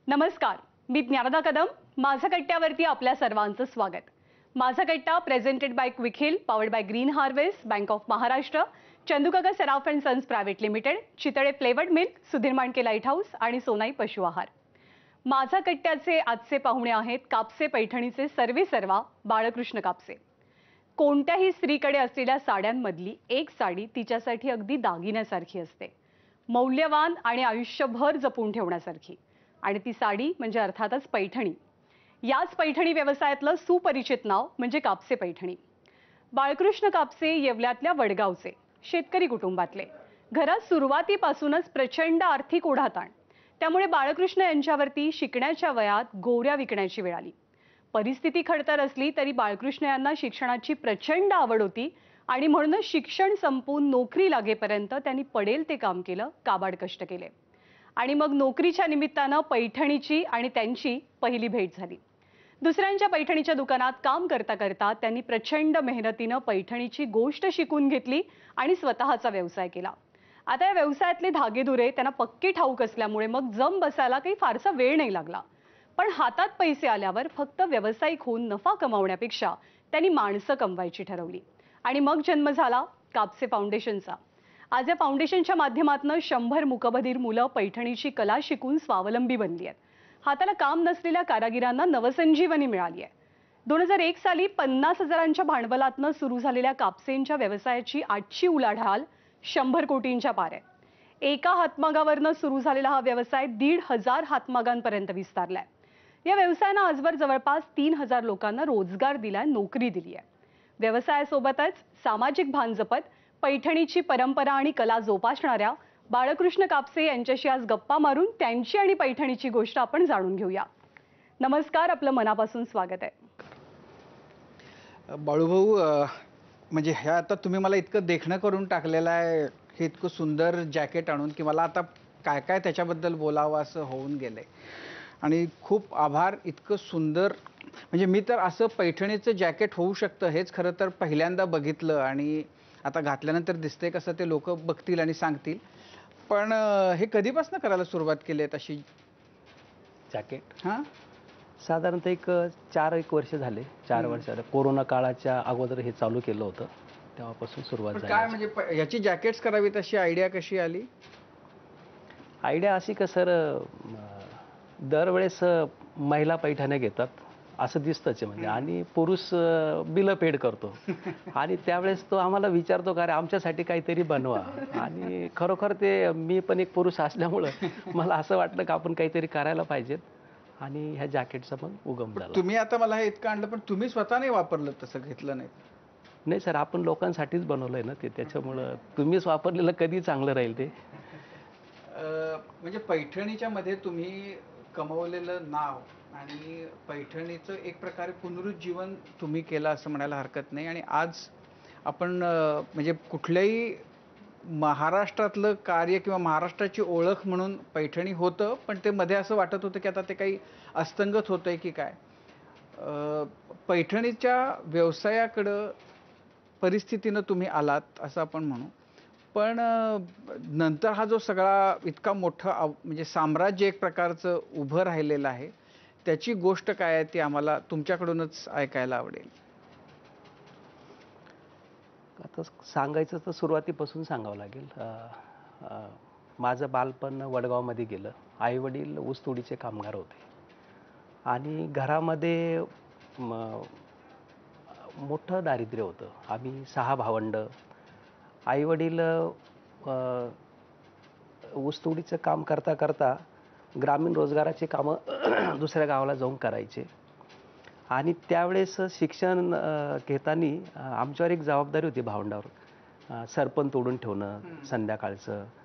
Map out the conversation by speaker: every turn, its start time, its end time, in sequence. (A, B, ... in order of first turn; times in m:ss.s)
0:00.1-0:14.5 A
0:15.3-0:20.2 A
0:21.0-0:25.9 A
0:26.5-0:31.6 A
0:32.2-0:35.6 A
0:36.3-0:47.3 A
0:47.9-0:57.3 A
0:58.0-1:02.0 A
1:02.6-1:09.9 A
1:10.5-1:15.4 A
1:16.0-1:24.2 A
1:24.7-1:33.1 A
1:33.7-1:40.6 A
1:41.2-1:45.7 A
1:46.2-1:50.2 A
1:50.8-2:00.7 A
2:01.4-2:03.2 A
2:05.1-2:14.5 B
2:15.2-2:25.6 B
2:26.3-2:28.8 B
2:30.1-2:30.5 C
2:30.6-2:30.9 B
2:31.6-2:38.4 C
2:33.9-2:34.2 B
2:37.9-2:40.9 B
2:42.4-3:00.0 C
3:00.6-3:02.5 C
3:02.2-3:05.5 B
3:06.2-3:10.8 C
3:11.8-3:21.3 B
3:21.8-3:23.8 B
3:24.4-3:32.0 B
3:32.8-3:35.8 B
3:36.6-3:38.7 B
3:39.3-3:45.5 B
3:46.0-3:49.3 B
3:52.2-4:00.2 C
4:01.3-4:03.8 C
4:04.7-4:07.5 C
4:08.5-4:10.4 C
4:11.4-4:13.2 C
4:13.7-4:16.9 C
4:17.9-4:22.5 C
4:23.1-4:25.5 C